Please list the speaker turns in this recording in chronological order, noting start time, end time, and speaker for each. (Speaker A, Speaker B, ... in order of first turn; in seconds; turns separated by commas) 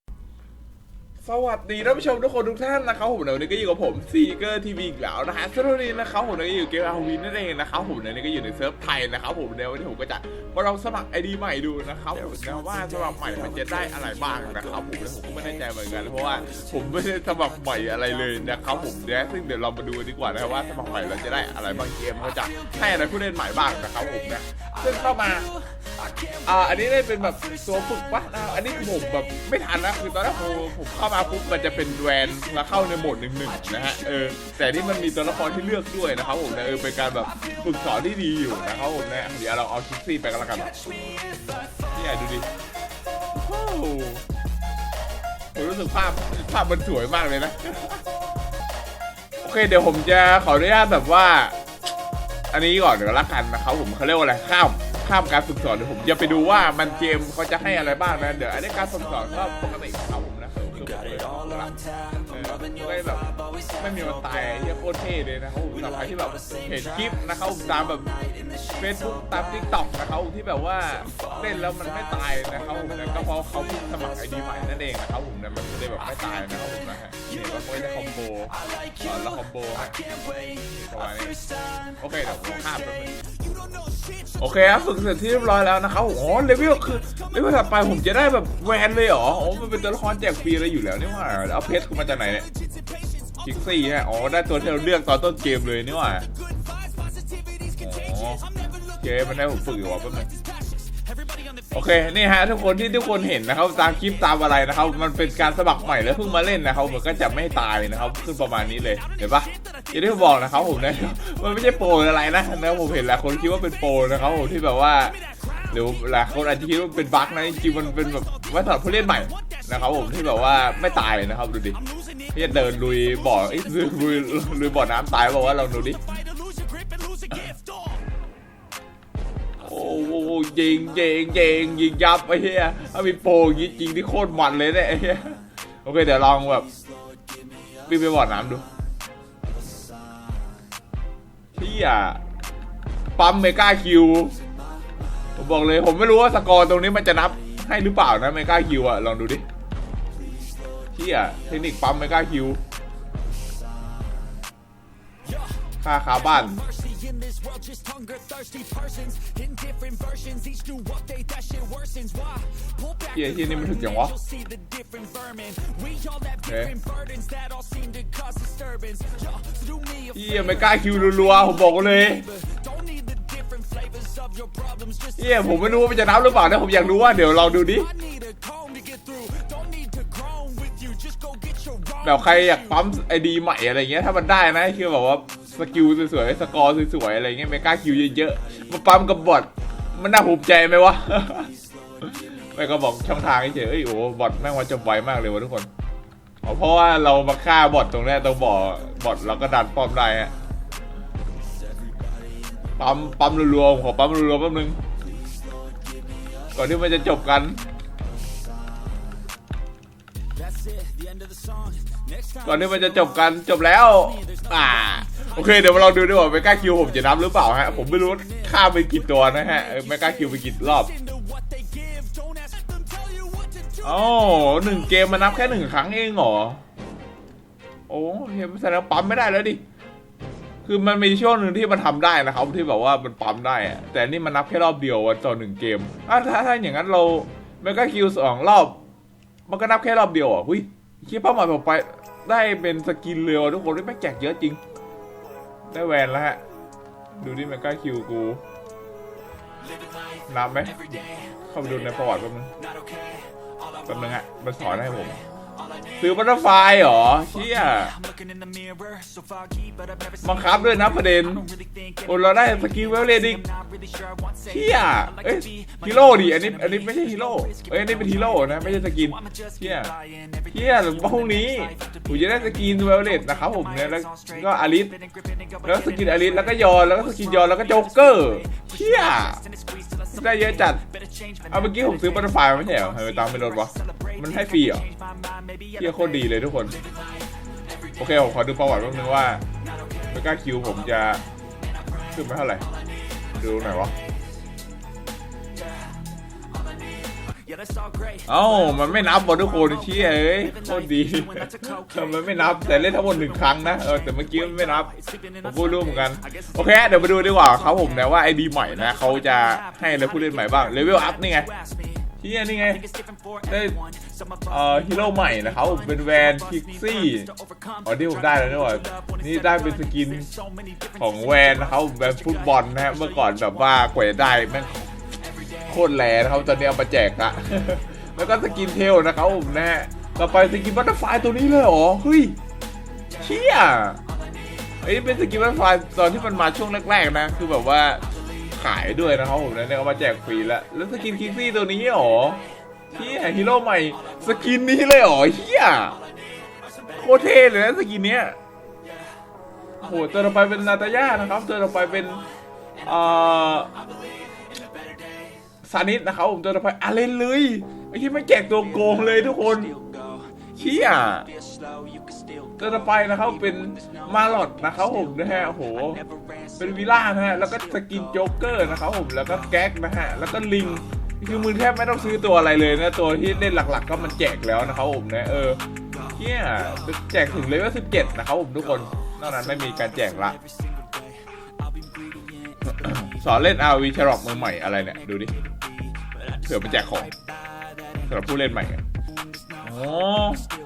Speaker A: 1.2-25.5, Speaker A: 26.4-40.9, Speaker A: 41.9-42.5, Speaker A: 43.3-44.2, Speaker A: 45.5-48.0, Speaker A: 49.4-51.5, Speaker A: 52.5-68.2, Speaker A: 68.8-81.4, Speaker A: 82.0-83.2, Speaker A: 84.4-92.5, Speaker A: 93.4-96.3, Speaker A: 97.8-98.5, Speaker A: 99.0-100.3, Speaker A: 101.7-115.2, Speaker A: 115.7-121.8, Speaker A: 122.3-126.0, Speaker B: 126.6-127.5, Speaker A: 129.6-136.7, Speaker A: 137.9-138.6, Speaker A: 141.6-142.2, Speaker A: 143.2-144.4, Speaker A: 145.3-149.4, Speaker A: 150.9-152.6, Speaker A: 155.8-156.6, Speaker B: 156.8-162.4, Speaker A: 163.1-164.2, Speaker B: 164.4-166.2, Speaker A: 166.4-166.7, Speaker B: 166.7-169.2, Speaker A: 170.1-172.3, Speaker B: 172.8-174.9, Speaker A: 175.2-177.9, Speaker B: 178.1-181.7, Speaker A: 182.0-195.7, Speaker A: 196.4-200.3, Speaker A: 202.8-204.8, Speaker A: 206.5-207.6, Speaker B: 210.5-212.0, Speaker A: 212.4-220.9, Speaker B: 221.3-223.6, Speaker A: 223.8-226.6, Speaker A: 227.9-229.6, Speaker A: 230.6-238.8, Speaker A: 239.5-244.6, Speaker A: 245.7-246.4, Speaker A: 247.2-248.4, Speaker A: 250.3-252.5, Speaker A: 253.8-255.2, Speaker A: 256.0-258.0, Speaker B: 258.2-259.8, Speaker A: 260.2-261.5, Speaker A: 262.0-263.4, Speaker A: 264.4-269.9, Speaker A: 270.5-275.0, Speaker A: 275.6-279.4, Speaker A: 280.1-280.8, Speaker A: 281.5-284.9, Speaker A: 285.7-286.8, Speaker A: 288.0-289.4, Speaker A: 290.1-291.2, Speaker A: 292.1-292.6, Speaker A: 293.3-293.9, Speaker B: 297.6-298.0, Speaker A: 298.2-311.5, Speaker A: 312.2-312.8, Speaker A: 313.5-313.8, Speaker A: 314.5-317.3, Speaker A: 317.8-320.3, Speaker A: 321.0-324.9, Speaker A: 325.7-332.4, Speaker A: 333.2-334.0, Speaker A: 334.8-346.0, Speaker A: 346.9-348.4, Speaker A: 349.8-352.2, Speaker A: 352.8-353.7, Speaker A: 355.6-359.8, Speaker A: 360.6-361.3, Speaker B: 361.6-362.3, Speaker A: 362.6-366.0, Speaker A: 366.6-375.6, Speaker A: 376.2-380.4, Speaker A: 382.7-385.3, Speaker A: 386.4-387.1, Speaker A: 388.0-388.8, Speaker A: 389.6-390.4